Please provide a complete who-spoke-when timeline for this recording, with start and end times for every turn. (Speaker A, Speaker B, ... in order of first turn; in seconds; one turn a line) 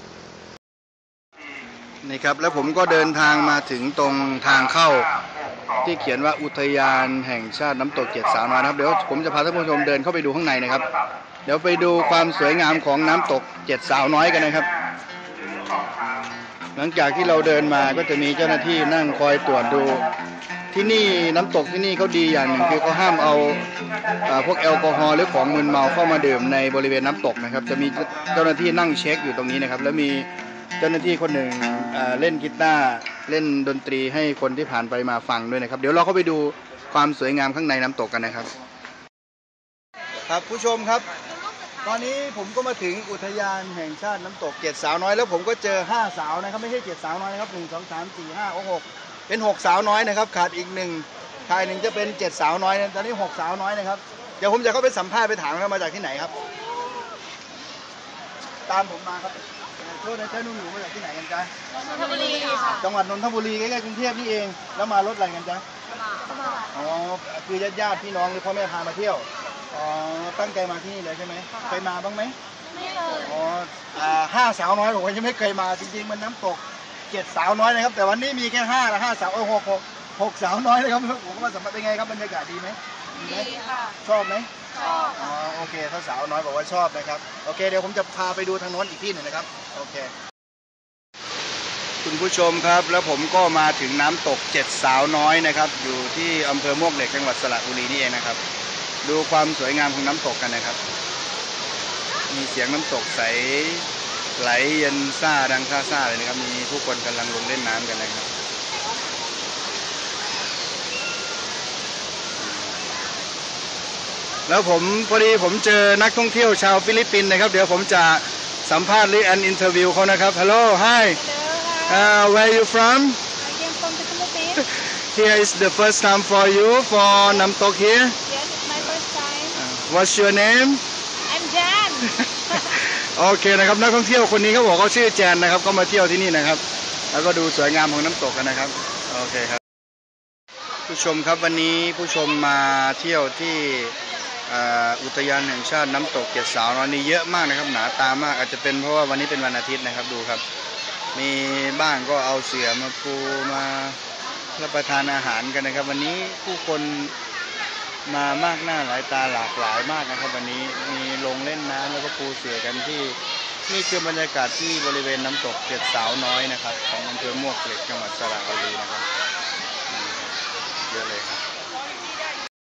Speaker A: 2.0-5.1
Speaker A: 5.8-10.9
Speaker A: 11.4-14.7
Speaker A: 16.8-20.1
Speaker A: 20.7-23.7
Speaker A: 24.2-30.3
Speaker A: 30.8-38.5
Speaker A: 40.3-41.1
Speaker A: 41.8-56.4
Speaker A: 58.7-65.7
Speaker B: 61.9-62.8
Speaker B: 66.1-66.7
Speaker A: 66.7-72.4
Speaker B: 72.7-73.3
Speaker A: 73.2-90.1
Speaker B: 83.2-83.9
Speaker B: 84.8-85.2
Speaker A: 92.0-98.4
Speaker A: 99.0-100.8
Speaker A: 102.3-108.3
Speaker A: 112.4-112.7
Speaker A: 114.5-121.2
Speaker B: 121.1-122.1
Speaker A: 121.9-123.2
Speaker B: 123.4-124.6
Speaker A: 124.6-128.2
Speaker B: 128.2-129.6
Speaker A: 129.5-130.8
Speaker B: 131.3-132.6
Speaker A: 132.5-139.6
Speaker A: 140.9-143.9
Speaker A: 144.5-150.4
Speaker A: 151.2-154.0
Speaker A: 154.6-157.1
Speaker A: 158.1-169.1
Speaker A: 169.9-170.3
Speaker A: 170.9-171.4